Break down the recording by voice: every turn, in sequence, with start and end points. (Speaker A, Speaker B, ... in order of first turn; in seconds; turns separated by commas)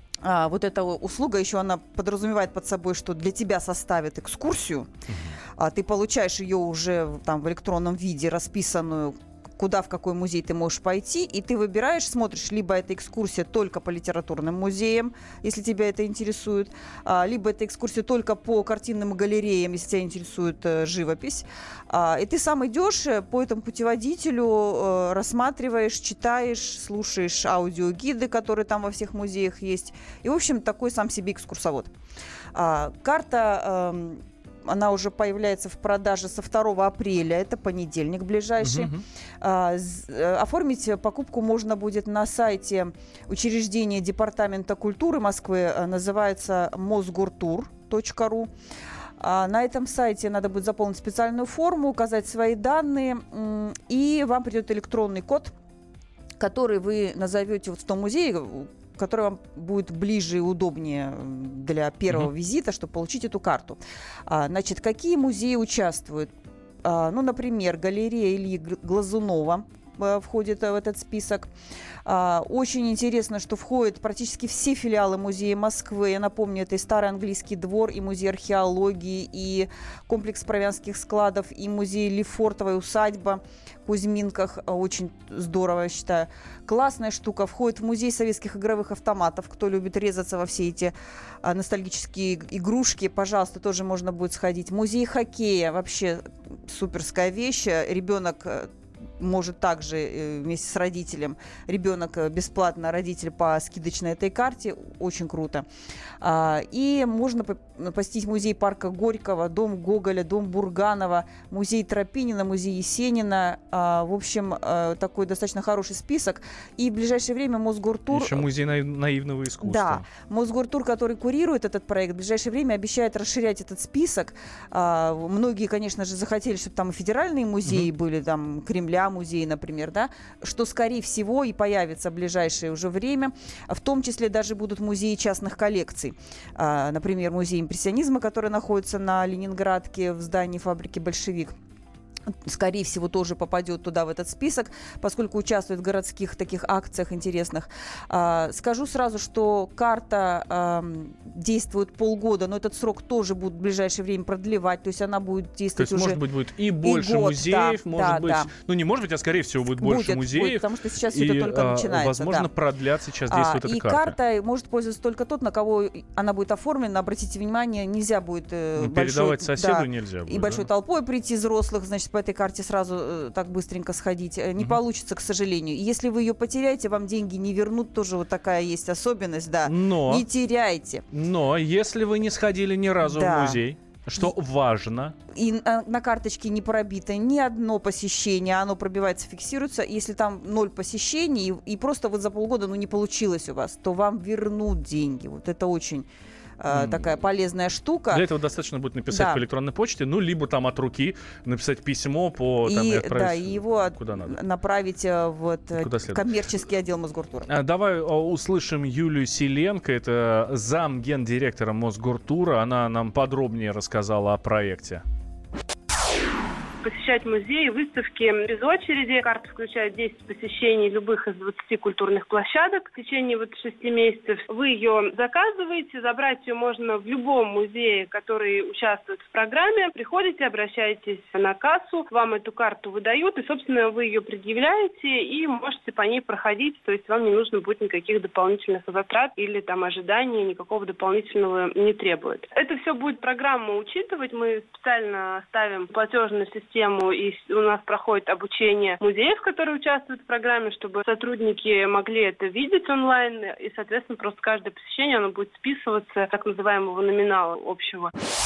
Speaker A: 0.2-4.9, Speaker B: 5.1-5.4, Speaker A: 5.6-31.9, Speaker A: 32.5-48.5, Speaker B: 38.6-39.0, Speaker A: 49.2-55.5, Speaker A: 56.4-66.3, Speaker A: 66.8-71.5, Speaker A: 72.0-105.6, Speaker A: 106.2-118.5, Speaker B: 118.1-120.0, Speaker A: 119.6-141.5, Speaker A: 142.4-156.2, Speaker B: 155.8-164.1, Speaker A: 156.8-158.5, Speaker A: 159.8-162.5, Speaker A: 163.3-181.0, Speaker B: 168.8-170.7, Speaker B: 179.6-180.2, Speaker B: 181.1-185.1, Speaker A: 183.0-183.6, Speaker A: 185.3-196.1, Speaker A: 196.6-198.2, Speaker B: 196.7-197.0, Speaker B: 198.1-204.4, Speaker A: 199.1-199.4, Speaker A: 202.7-207.5, Speaker B: 205.7-206.2, Speaker B: 207.5-215.0, Speaker C: 216.8-258.1